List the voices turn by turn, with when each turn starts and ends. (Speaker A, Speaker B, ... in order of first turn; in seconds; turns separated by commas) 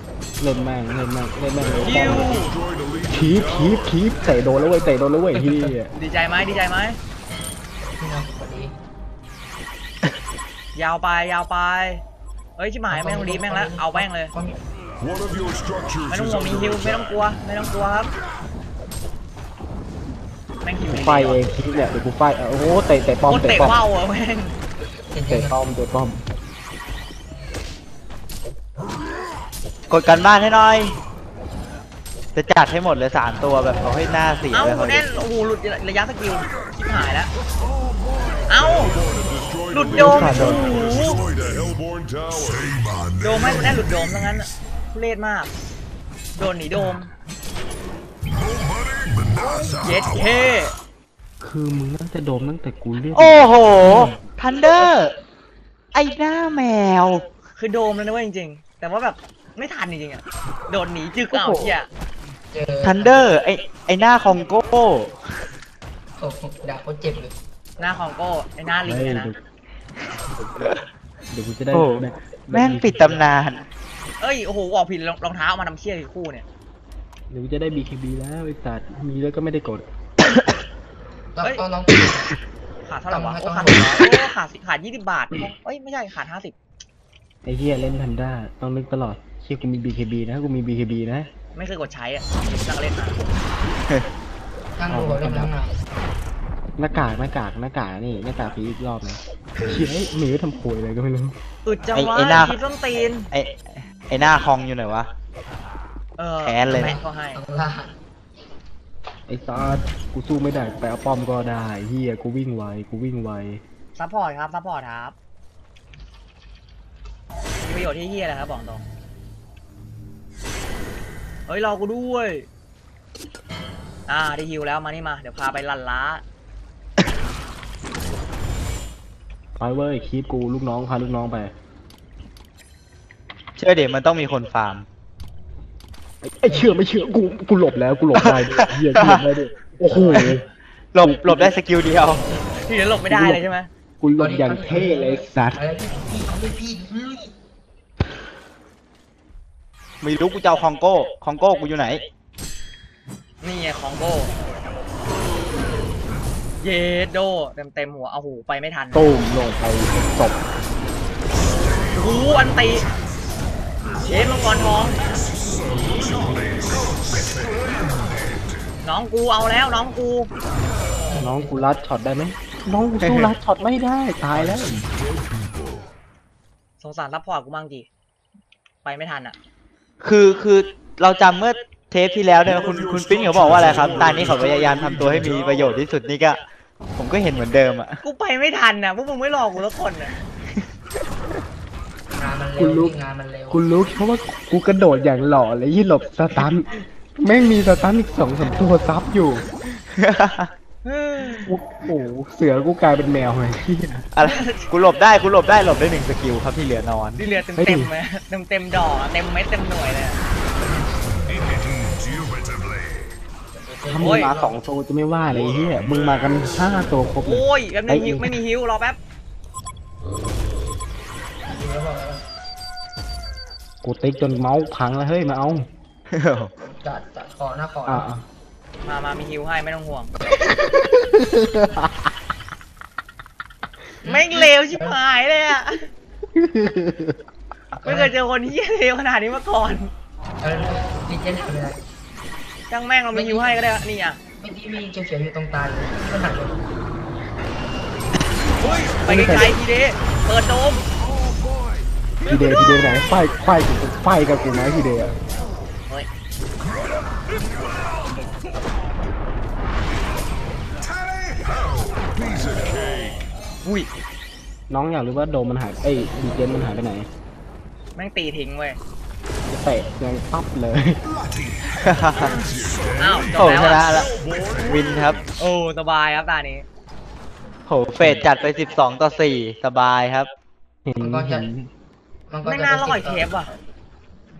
Speaker A: 0.4-2.5, Speaker B: 1.6-4.5, Speaker C: 1.8-2.5, Speaker A: 3.1-5.9, Speaker C: 5.9-7.0, Speaker D: 7.8-8.7, Speaker C: 10.8-12.0, Speaker C: 12.6-14.3, Speaker D: 12.9-14.6, Speaker B: 15.0-17.2, Speaker C: 16.1-18.1, Speaker C: 20.6-21.5, Speaker A: 20.9-23.8, Speaker C: 23.3-24.6, Speaker D: 25.1-25.6, Speaker A: 25.3-26.2, Speaker E: 29.9-31.0, Speaker E: 32.4-35.0, Speaker C: 34.5-37.3, Speaker C: 38.5-39.0, Speaker B: 38.5-44.4, Speaker C: 39.7-41.2, Speaker A: 39.9-40.8, Speaker C: 43.2-45.5, Speaker C: 46.4-47.1, Speaker B: 48.2-50.5, Speaker C: 49.8-50.7, Speaker A: 51.4-54.2, Speaker E: 53.1-55.1, Speaker E: 55.9-57.2, Speaker C: 57.6-61.9, Speaker E: 61.3-61.7, Speaker D: 62.5-63.2, Speaker E: 62.8-65.1, Speaker D: 66.2-67.3, Speaker C: 67.8-69.3, Speaker A: 68.8-69.4, Speaker A: 70.3-70.7, Speaker A: 71.3-73.2, Speaker E: 71.7-73.6, Speaker C: 74.2-76.5, Speaker A: 77.3-79.9, Speaker D: 81.3-82.3, Speaker C: 82.9-86.5, Speaker D: 83.1-84.2, Speaker A: 87.4-91.3, Speaker C: 91.5-93.2, Speaker D: 94.8-95.8, Speaker A: 94.9-95.5, Speaker A: 96.8-101.4, Speaker C: 101.7-103.3, Speaker E: 101.9-102.6, Speaker E: 103.3-105.1, Speaker C: 106.2-107.4, Speaker E: 106.4-107.0, Speaker D: 107.3-108.0, Speaker A: 109.3-113.6, Speaker C: 114.0-115.2, Speaker C: 117.6-118.8, Speaker C: 121.5-122.5, Speaker C: 124.1-126.2, Speaker A: 129.6-131.5, Speaker E: 133.6-134.9, Speaker A: 136.2-140.4, Speaker E: 138.2-139.2, Speaker E: 140.0-140.3, Speaker E: 140.9-142.2, Speaker A: 141.0-141.6, Speaker C: 142.6-143.7, Speaker A: 143.1-143.4, Speaker A: 144.0-145.6, Speaker D: 144.2-147.3, Speaker E: 150.0-152.0, Speaker C: 153.4-154.3, Speaker C: 156.6-159.1, Speaker A: 158.9-160.4, Speaker C: 162.0-162.8, Speaker B: 162.1-162.4, Speaker C: 164.0-165.0, Speaker B: 164.0-168.6, Speaker C: 168.8-170.3, Speaker D: 171.1-171.7, Speaker A: 171.2-174.8, Speaker E: 173.0-173.3, Speaker B: 174.3-175.9, Speaker C: 176.8-177.9, Speaker C: 178.8-179.4, Speaker E: 180.0-186.4, Speaker B: 182.4-185.9, Speaker E: 187.0-188.0, Speaker C: 188.0-190.1, Speaker D: 192.2-193.6, Speaker A: 192.6-193.0, Speaker A: 193.5-199.4, Speaker E: 199.9-200.5, Speaker C: 200.8-201.5, Speaker A: 201.4-204.1, Speaker E: 204.1-207.2, Speaker C: 204.2-204.7, Speaker C: 207.2-210.2, Speaker A: 207.6-207.9, Speaker B: 211.0-213.2, Speaker D: 213.5-214.6, Speaker A: 213.9-218.4, Speaker C: 214.0-214.3, Speaker B: 215.3-216.9, Speaker C: 217.2-219.0, Speaker D: 221.4-222.2, Speaker A: 223.8-225.7, Speaker E: 226.1-226.5, Speaker D: 226.6-228.1, Speaker A: 227.9-228.2, Speaker C: 228.8-230.1, Speaker A: 231.0-231.9, Speaker D: 234.0-235.0, Speaker C: 234.1-235.9, Speaker A: 236.3-237.2, Speaker D: 237.8-238.1, Speaker C: 237.8-239.9, Speaker D: 240.4-241.8, Speaker C: 242.7-244.2, Speaker D: 243.1-243.6, Speaker D: 244.4-246.6, Speaker C: 248.6-250.8, Speaker A: 249.1-249.5, Speaker A: 252.2-255.2, Speaker B: 260.8-263.3, Speaker A: 264.7-267.1, Speaker C: 268.0-268.8, Speaker A: 269.5-271.0, Speaker B: 271.1-275.2, Speaker E: 271.8-272.4, Speaker C: 273.0-273.9, Speaker E: 273.4-274.1, Speaker E: 274.6-275.2, Speaker C: 275.4-276.7, Speaker E: 277.7-280.3, Speaker A: 280.9-281.7, Speaker D: 281.0-281.5, Speaker D: 282.3-283.6, Speaker C: 282.4-283.5